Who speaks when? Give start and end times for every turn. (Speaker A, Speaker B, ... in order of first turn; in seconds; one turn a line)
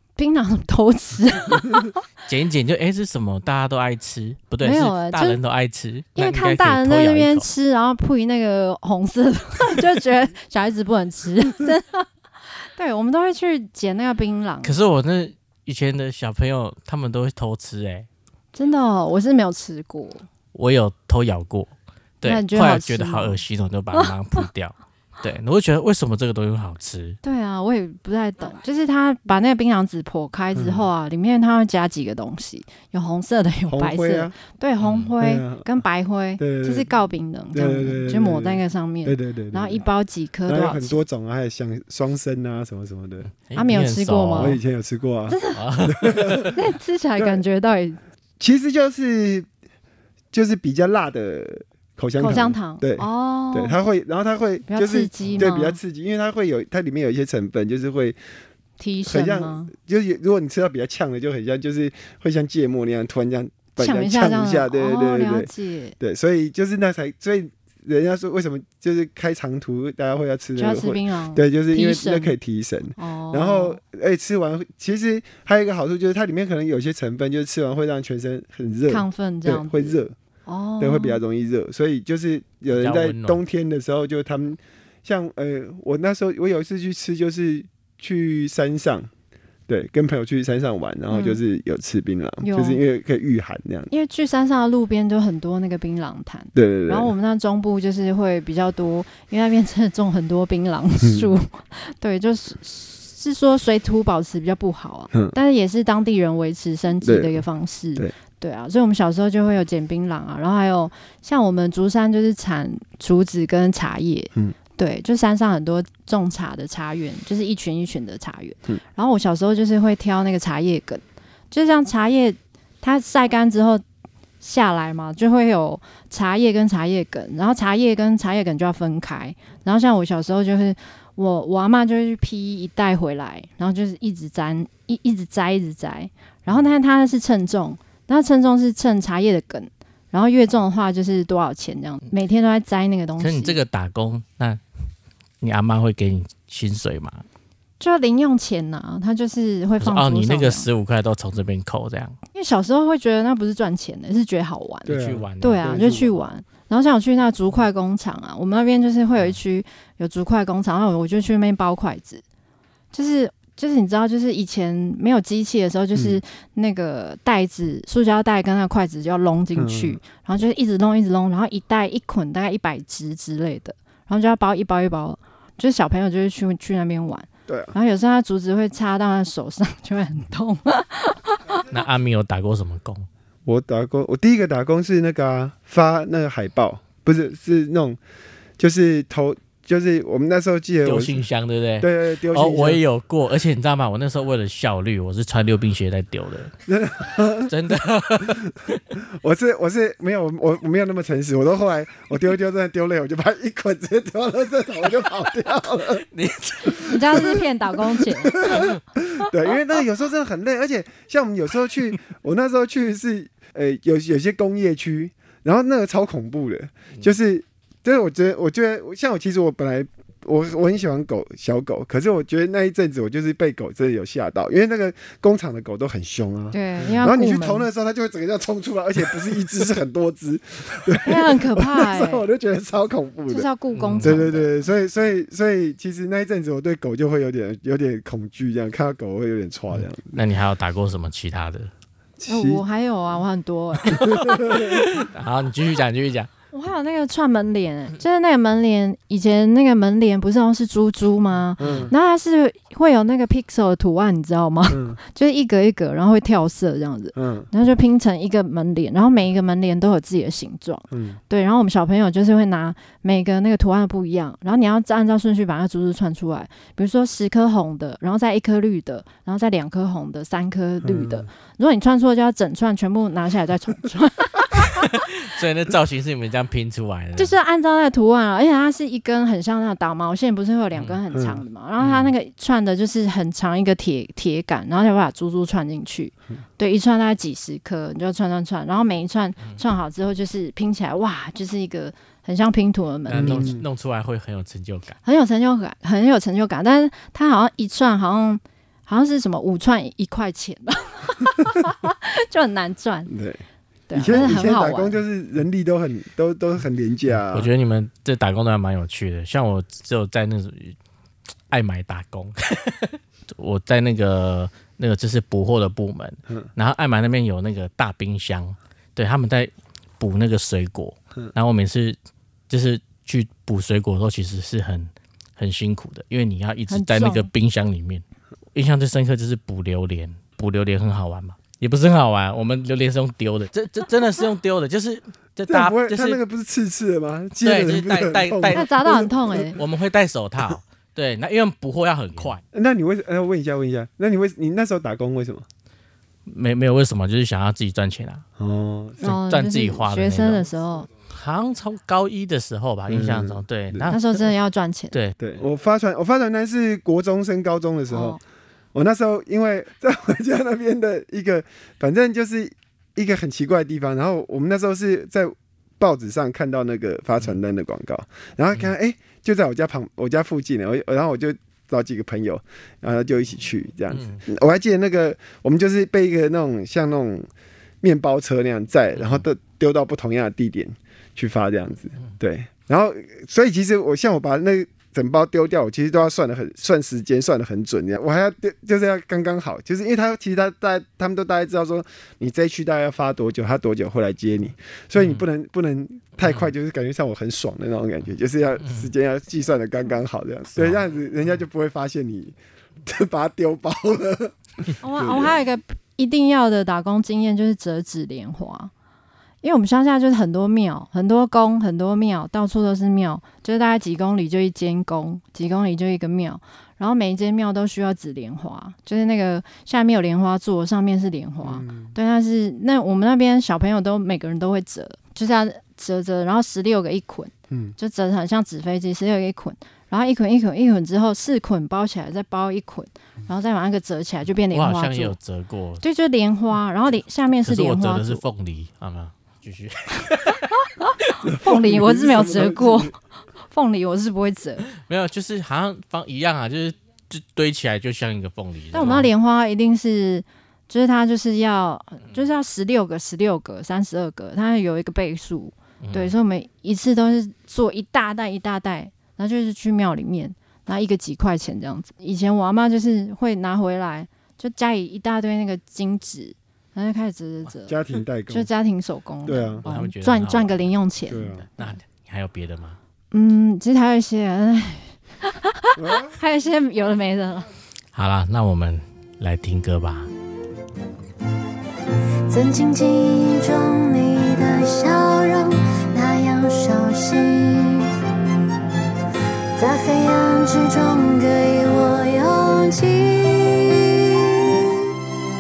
Speaker A: 0.2-2.0
Speaker B: 2.3-7.5
Speaker A: 4.6-5.4
Speaker A: 6.2-12.1
Speaker A: 12.7-14.8
Speaker B: 14.6-18.1
Speaker A: 18.6-20.3
Speaker B: 20.5-27.2
Speaker A: 22.2-23.4
Speaker A: 27.2-41.0
Speaker C: 30.6-30.9
Speaker C: 33.7-34.4
Speaker B: 34.8-35.1
Speaker C: 35.2-35.8
Speaker C: 36.4-36.9
Speaker C: 37.5-39.8
Speaker C: 40.5-43.3
Speaker B: 43.4-44.6
Speaker A: 43.5-44.6
Speaker C: 44.4-46.6
Speaker A: 45.3-45.6
Speaker B: 45.5-46.5
Speaker A: 46.5-48.0
Speaker C: 48.4-49.5
Speaker C: 50.3-58.2
Speaker A: 52.2-53.8
Speaker A: 54.7-55.8
Speaker A: 58.8-59.7
Speaker C: 59.0-80.2
Speaker A: 63.8-66.0
Speaker A: 70.6-72.3
Speaker A: 73.0-73.8
Speaker A: 78.9-80.0
Speaker A: 80.5-81.2
Speaker C: 80.8-89.1
Speaker B: 82.7-83.4
Speaker C: 89.7-93.9
Speaker A: 91.1-91.4
Speaker A: 92.4-92.8
Speaker A: 93.9-123.8
Speaker C: 96.5-97.1
Speaker C: 101.0-101.3
Speaker C: 107.0-107.4
Speaker A: 124.4-143.6
Speaker B: 143.2-144.6
Speaker B: 145.4-147.2
Speaker A: 147.8-150.7
Speaker B: 149.8-152.2
Speaker A: 152.3-162.2
Speaker B: 154.9-155.9
Speaker C: 154.9-156.1
Speaker A: 162.9-181.6
Speaker C: 165.9-166.2
Speaker C: 169.6-170.0
Speaker C: 177.5-177.8
Speaker B: 181.7-183.1
Speaker C: 183.5-188.0
Speaker C: 188.6-191.2
Speaker B: 190.8-196.5
Speaker C: 191.8-192.8
Speaker C: 196.7-197.5
Speaker B: 197.5-198.8
Speaker C: 199.0-206.1
Speaker B: 206.1-207.2
Speaker C: 206.7-207.4
Speaker A: 206.8-208.7
Speaker C: 208.0-233.5
Speaker A: 226.5-227.7
Speaker A: 231.0-232.2
Speaker A: 233.3-234.7
Speaker B: 233.8-234.2
Speaker C: 234.0-240.2
Speaker B: 239.7-241.7
Speaker C: 242.2-242.6
Speaker A: 242.3-244.2
Speaker C: 244.1-244.8
Speaker B: 244.4-246.3
Speaker A: 246.5-274.9
Speaker C: 251.6-251.9
Speaker B: 251.6-251.9
Speaker C: 254.7-255.0
Speaker C: 257.1-257.5
Speaker C: 260.9-261.2
Speaker C: 270.8-271.3
Speaker B: 274.8-277.4
Speaker A: 277.2-293.6
Speaker C: 281.1-281.4
Speaker B: 281.8-282.1
Speaker B: 293.1-295.0
Speaker C: 293.1-293.6
Speaker A: 295.1-303.1
Speaker C: 303.1-303.4
Speaker A: 303.9-305.0
Speaker C: 303.9-307.5
Speaker B: 307.3-310.8
Speaker B: 311.5-322.0
Speaker B: 322.5-328.0
Speaker A: 326.7-327.3
Speaker B: 328.5-336.2
Speaker C: 335.5-339.5
Speaker B: 337.4-338.7
Speaker A: 338.5-339.6
Speaker B: 339.5-342.4
Speaker C: 342.5-345.5
Speaker B: 346.3-348.2
Speaker C: 348.4-349.1
Speaker B: 349.0-350.5
Speaker A: 349.0-350.9
Speaker B: 351.1-354.3
Speaker C: 352.9-353.9
Speaker A: 353.9-354.9
Speaker B: 354.9-355.2
Speaker C: 355.2-358.2
Speaker A: 357.9-358.2
Speaker C: 358.7-377.3
Speaker B: 373.9-374.2
Speaker C: 377.8-405.4
Speaker B: 379.0-379.2
Speaker B: 395.0-395.2
Speaker B: 396.2-396.5
Speaker B: 400.6-400.8
Speaker A: 404.8-408.7
Speaker A: 409.4-435.2
Speaker C: 421.4-422.0
Speaker C: 427.5-427.8
Speaker B: 434.5-435.8
Speaker A: 435.8-438.2
Speaker B: 437.4-440.6
Speaker A: 440.8-443.0
Speaker C: 441.2-442.9
Speaker A: 443.5-444.7
Speaker B: 444.7-449.1
Speaker A: 448.7-467.8
Speaker B: 455.8-456.1
Speaker C: 467.7-468.5
Speaker A: 468.3-471.8
Speaker C: 469.2-469.6
Speaker B: 469.6-472.8
Speaker C: 471.1-471.5
Speaker A: 473.1-477.5
Speaker C: 475.8-476.2
Speaker B: 477.9-480.1
Speaker D: 482.3-488.0
Speaker D: 489.6-495.0